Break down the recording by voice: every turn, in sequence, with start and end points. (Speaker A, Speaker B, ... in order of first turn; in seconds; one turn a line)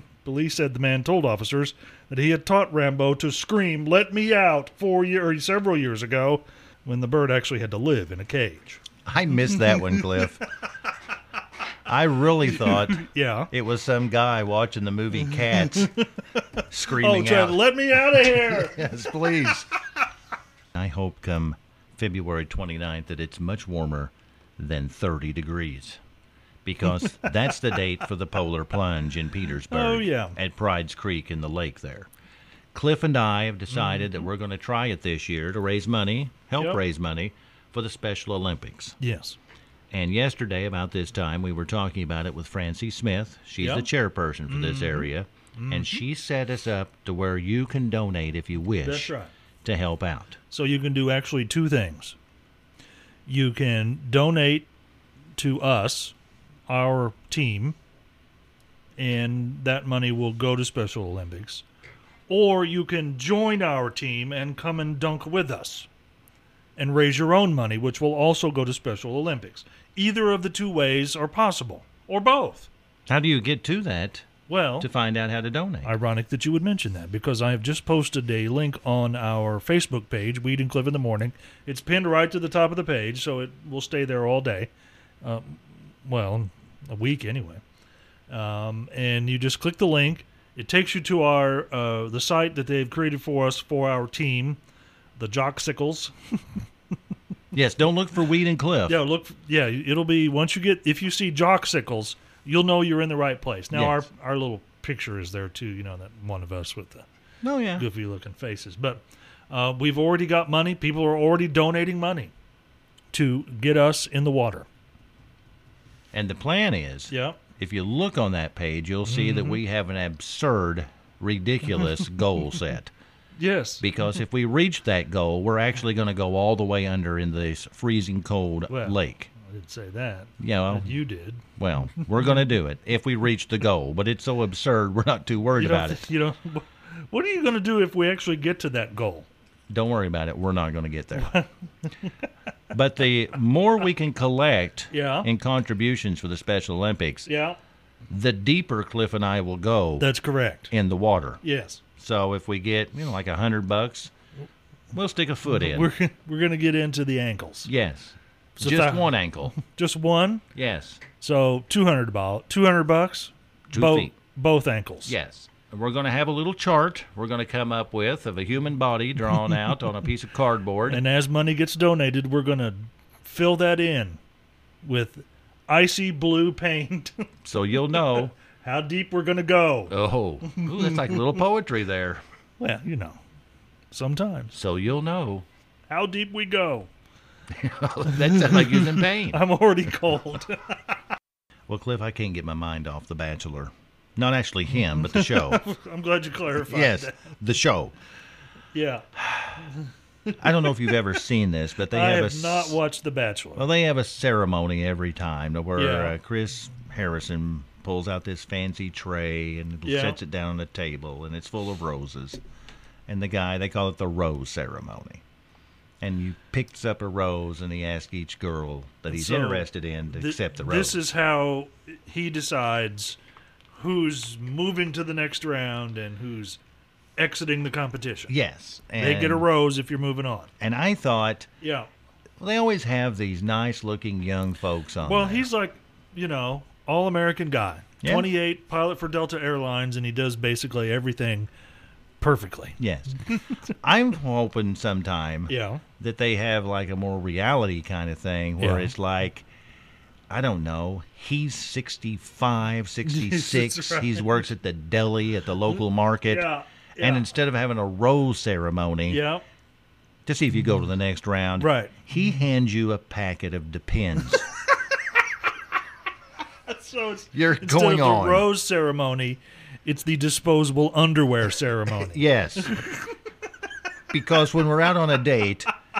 Speaker A: 0.2-8.8
Speaker B: 9.0-10.4
Speaker A: 9.5-10.3
Speaker B: 11.8-16.0
Speaker A: 12.5-13.5
Speaker A: 15.4-19.0
Speaker B: 16.7-19.7
Speaker B: 20.7-26.0
Speaker B: 26.6-32.1
Speaker A: 29.7-30.4
Speaker B: 32.7-39.0
Speaker A: 33.7-34.2
Speaker A: 39.0-39.4
Speaker B: 39.9-49.1
Speaker A: 43.6-43.9
Speaker A: 44.5-46.0
Speaker A: 48.8-49.3
Speaker B: 49.6-50.4
Speaker A: 50.5-52.1
Speaker A: 53.3-54.7
Speaker A: 55.4-56.1
Speaker A: 56.7-57.8
Speaker A: 59.0-61.6
Speaker A: 62.3-65.9
Speaker A: 66.8-72.7
Speaker B: 73.1-74.3
Speaker A: 74.5-74.9
Speaker B: 74.8-75.9
Speaker A: 75.8-84.7
Speaker A: 85.2-87.6
Speaker A: 88.3-94.6
Speaker A: 95.2-96.4
Speaker B: 97.5-99.0
Speaker A: 98.9-107.1
Speaker B: 103.7-104.0
Speaker B: 107.4-107.8
Speaker A: 107.8-112.3
Speaker A: 113.1-114.7
Speaker B: 116.1-122.9
Speaker A: 117.1-117.4
Speaker A: 119.0-119.6
Speaker A: 123.4-123.8
Speaker B: 123.8-129.3
Speaker A: 128.7-131.4
Speaker B: 130.4-131.0
Speaker B: 131.6-136.1
Speaker A: 135.6-139.3
Speaker B: 139.7-141.3
Speaker A: 141.2-141.5
Speaker B: 142.7-147.3
Speaker A: 144.9-145.3
Speaker A: 147.2-147.6
Speaker B: 148.1-150.1
Speaker A: 150.0-150.7
Speaker B: 150.7-151.4
Speaker A: 151.4-151.8
Speaker B: 152.0-154.1
Speaker B: 154.9-155.9
Speaker A: 155.5-157.7
Speaker B: 157.7-159.6
Speaker A: 158.6-160.4
Speaker B: 160.5-161.0
Speaker A: 161.2-165.1
Speaker B: 163.7-164.1
Speaker B: 165.1-171.0
Speaker A: 170.9-174.2
Speaker A: 174.8-177.2
Speaker B: 177.4-178.3
Speaker A: 177.9-179.9
Speaker B: 179.9-182.2
Speaker A: 180.5-181.3
Speaker A: 182.6-183.2
Speaker A: 183.9-184.5
Speaker B: 184.5-185.4
Speaker A: 185.9-186.9
Speaker B: 187.5-189.4
Speaker A: 188.1-190.9
Speaker B: 191.7-195.7
Speaker A: 194.8-197.3
Speaker B: 196.6-197.9
Speaker A: 198.7-199.8
Speaker B: 200.4-202.8
Speaker A: 200.6-200.9
Speaker A: 201.9-203.7
Speaker B: 203.6-212.4
Speaker A: 205.8-206.2
Speaker A: 209.8-210.2
Speaker B: 213.1-215.2
Speaker B: 216.0-221.0
Speaker A: 219.1-223.2
Speaker A: 223.8-226.6
Speaker A: 227.2-228.3
Speaker B: 228.3-229.4
Speaker A: 229.0-230.5
Speaker B: 230.6-231.5
Speaker A: 231.6-231.9
Speaker B: 232.4-235.5
Speaker A: 235.0-241.5
Speaker B: 238.0-238.3
Speaker A: 242.2-243.6
Speaker B: 242.8-249.4
Speaker A: 245.5-245.8
Speaker A: 248.6-248.9
Speaker B: 250.3-259.2
Speaker A: 253.0-254.5
Speaker A: 256.3-257.3
Speaker A: 259.1-259.4
Speaker B: 260.2-264.5
Speaker A: 261.6-262.0
Speaker A: 266.7-273.1
Speaker B: 267.3-268.5
Speaker B: 272.0-272.8
Speaker B: 274.1-275.7